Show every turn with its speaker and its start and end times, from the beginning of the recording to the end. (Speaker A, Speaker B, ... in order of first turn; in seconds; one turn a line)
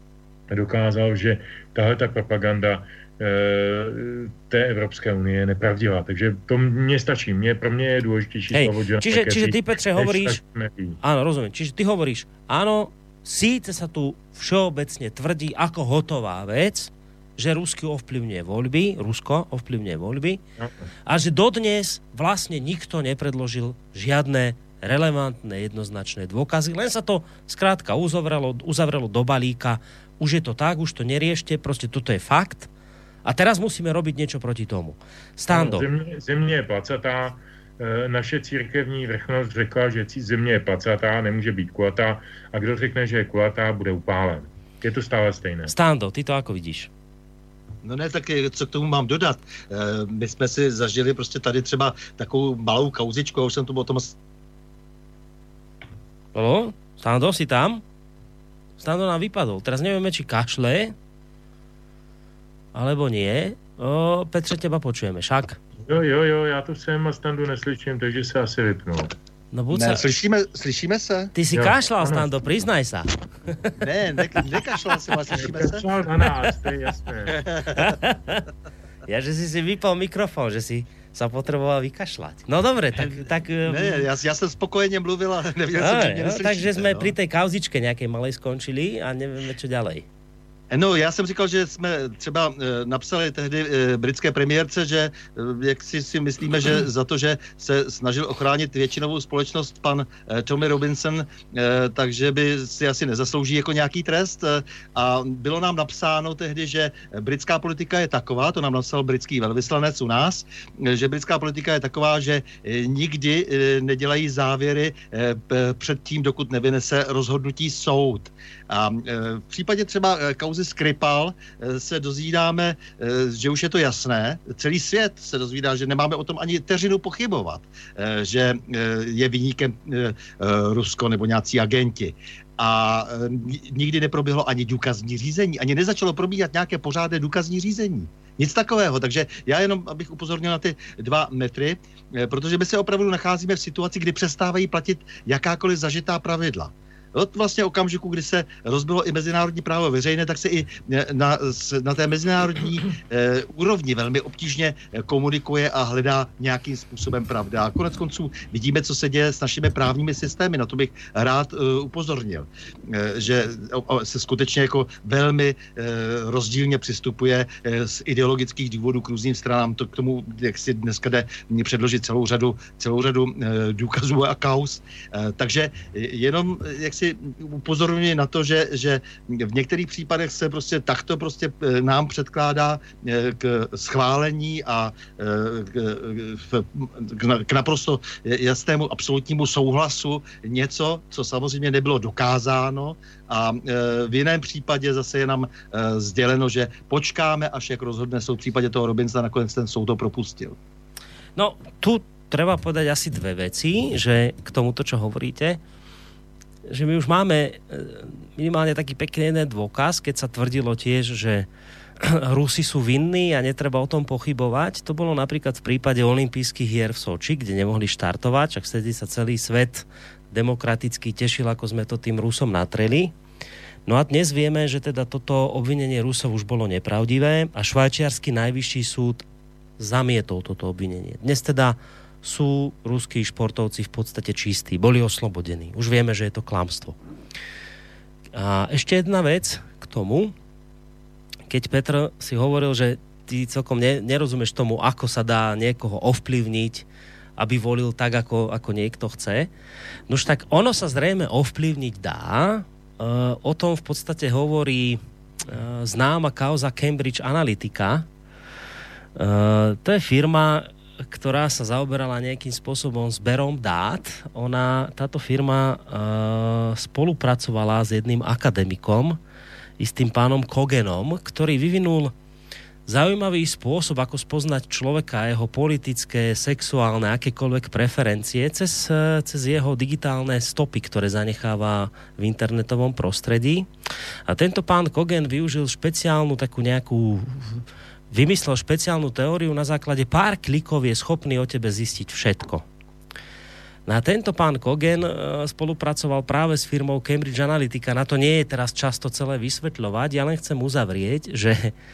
Speaker A: 0.5-11.0
Speaker B: 8.5-10.4
Speaker B: 11.0-20.4
Speaker B: 21.1-32.7
Speaker B: 33.2-35.9
Speaker A: 35.5-45.7
Speaker B: 45.7-46.9
Speaker C: 47.8-54.1
Speaker B: 56.3-57.8
Speaker B: 58.8-60.9
Speaker B: 62.7-65.6
Speaker A: 65.9-69.1
Speaker B: 69.5-70.2
Speaker C: 69.7-71.3
Speaker B: 71.3-73.8
Speaker A: 71.5-72.3
Speaker C: 73.8-75.8
Speaker A: 75.3-77.8
Speaker B: 77.7-78.4
Speaker B: 79.1-84.0
Speaker C: 83.0-87.1
Speaker B: 85.8-90.0
Speaker C: 90.7-200.6
Speaker B: 201.4-205.6
Speaker B: 206.7-211.5
Speaker B: 212.0-223.1
Speaker B: 223.9-229.2
Speaker B: 229.8-237.0
Speaker B: 238.3-240.3
Speaker B: 241.5-246.9
Speaker B: 247.4-249.5
Speaker B: 250.1-258.1
Speaker B: 259.1-269.2
Speaker B: 269.8-272.1
Speaker B: 272.9-283.7
Speaker B: 284.3-292.6
Speaker B: 293.9-301.7